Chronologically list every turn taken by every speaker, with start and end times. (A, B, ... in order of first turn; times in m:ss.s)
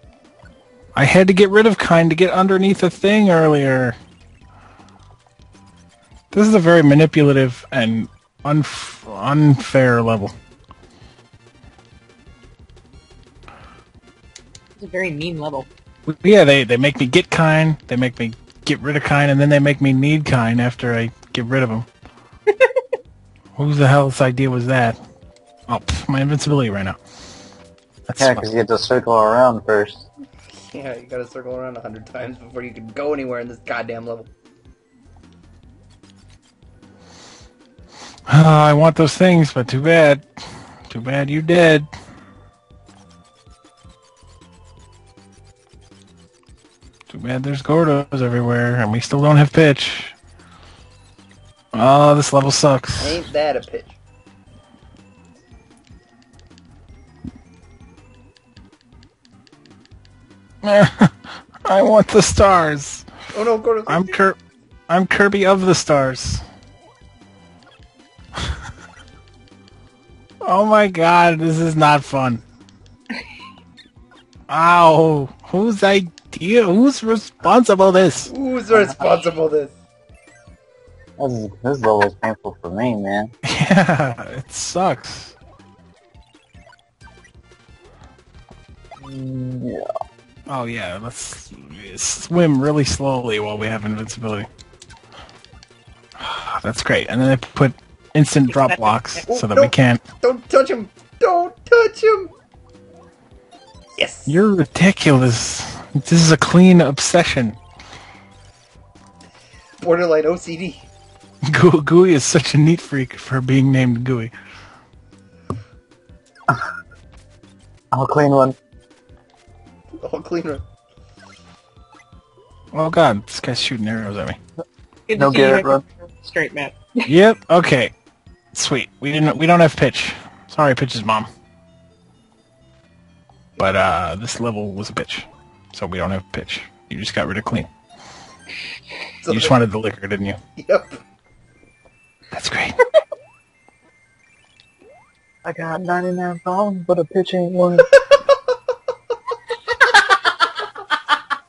0:00.9-0:04.0 A
0:06.3-0:10.3 A
0:14.8-0:15.7 B
0:16.0-0:21.9 A
0:22.5-0:22.8 B
0:23.6-0:25.0 A
0:25.7-0:27.0 A
0:28.1-0:28.4 A
0:28.2-0:30.1 C
0:30.6-0:34.3 D
0:38.3-0:41.9 A
0:47.1-0:50.1 A
0:51.7-0:53.2 A
0:53.0-0:54.0 D
1:00.6-1:01.1 A
1:01.6-1:03.0 A
1:03.3-1:04.1 D
1:03.9-1:04.4 A
1:04.9-1:06.4 A
1:10.4-1:12.4 A
1:14.5-1:18.3 A
1:18.3-1:19.8 D
1:21.2-1:23.3 C
1:23.4-1:25.3 A
1:29.0-1:29.8 C
1:30.5-1:34.5 A
1:36.2-1:40.0 A
1:38.5-1:38.8 B
1:39.3-1:42.3 D
1:43.9-1:44.4 D
1:44.3-1:47.6 A
1:49.8-1:50.9 D
1:51.5-1:54.3 A
1:57.9-1:58.6 C
2:00.0-2:00.6 D
2:02.7-2:04.4 A
2:05.1-2:07.1 B
2:05.1-2:05.8 C
2:07.0-2:07.9 A
2:08.5-2:11.3 A
2:13.6-2:17.7 A
2:19.2-2:19.5 D
2:19.3-2:20.4 A
2:20.6-2:21.0 D
2:22.3-2:22.8 A
2:25.4-2:27.9 C
2:27.9-2:28.2 D